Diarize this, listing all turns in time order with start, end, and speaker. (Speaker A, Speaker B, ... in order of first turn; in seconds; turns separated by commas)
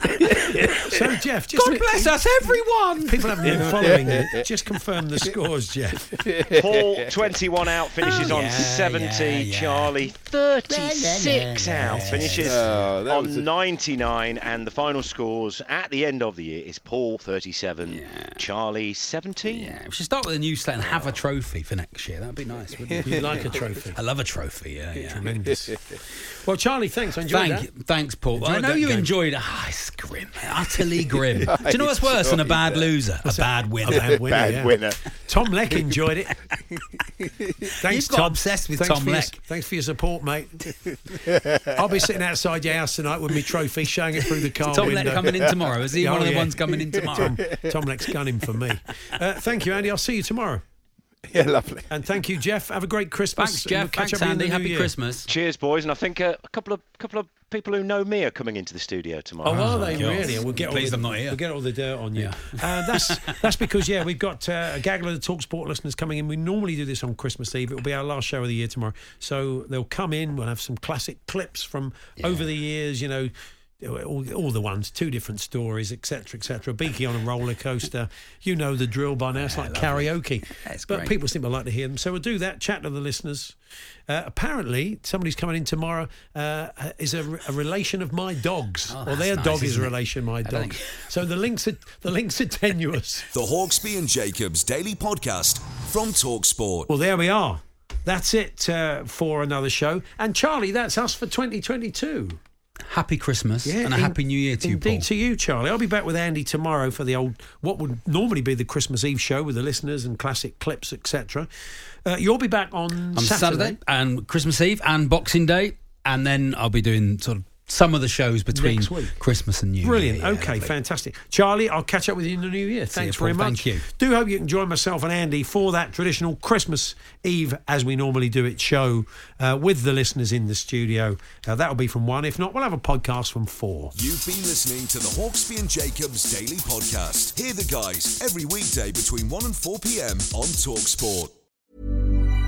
Speaker A: 0.2-0.9, Speaker B: 0.3-0.9, Speaker C: 0.8-2.1, Speaker A: 1.5-3.9, Speaker C: 3.1-6.1, Speaker B: 3.5-4.5, Speaker B: 6.1-7.4, Speaker D: 6.5-19.7, Speaker A: 8.0-10.1, Speaker A: 10.7-12.8, Speaker B: 12.4-13.5, Speaker A: 17.9-18.4, Speaker A: 19.5-25.4, Speaker B: 22.9-23.6, Speaker C: 23.1-24.0, Speaker C: 25.1-25.8, Speaker C: 26.4-27.7, Speaker A: 27.3-34.2, Speaker C: 28.4-29.1, Speaker B: 31.4-32.9, Speaker C: 33.2-36.4, Speaker B: 33.9-35.0, Speaker B: 35.7-36.0, Speaker B: 37.2-37.7, Speaker C: 37.7-40.7, Speaker A: 37.9-39.4, Speaker B: 40.9-42.1, Speaker C: 41.8-50.6, Speaker A: 44.6-47.4, Speaker B: 45.3-45.6, Speaker B: 47.2-47.7, Speaker B: 51.3-52.1, Speaker C: 51.9-54.9, Speaker A: 53.4-55.3, Speaker D: 55.3-60.2, Speaker C: 59.5-83.6, Speaker A: 59.5-61.4, Speaker A: 62.2-63.4, Speaker A: 72.2-72.5, Speaker A: 79.4-81.2, Speaker C: 84.1-93.3, Speaker A: 88.9-91.1, Speaker E: 93.3-96.9, Speaker C: 96.9-102.4, Speaker A: 102.9-105.1, Speaker C: 103.6-111.5, Speaker C: 112.0-113.8, Speaker A: 113.2-120.7, Speaker C: 118.5-119.2, Speaker C: 119.8-134.0, Speaker A: 122.9-123.8, Speaker E: 133.9-141.3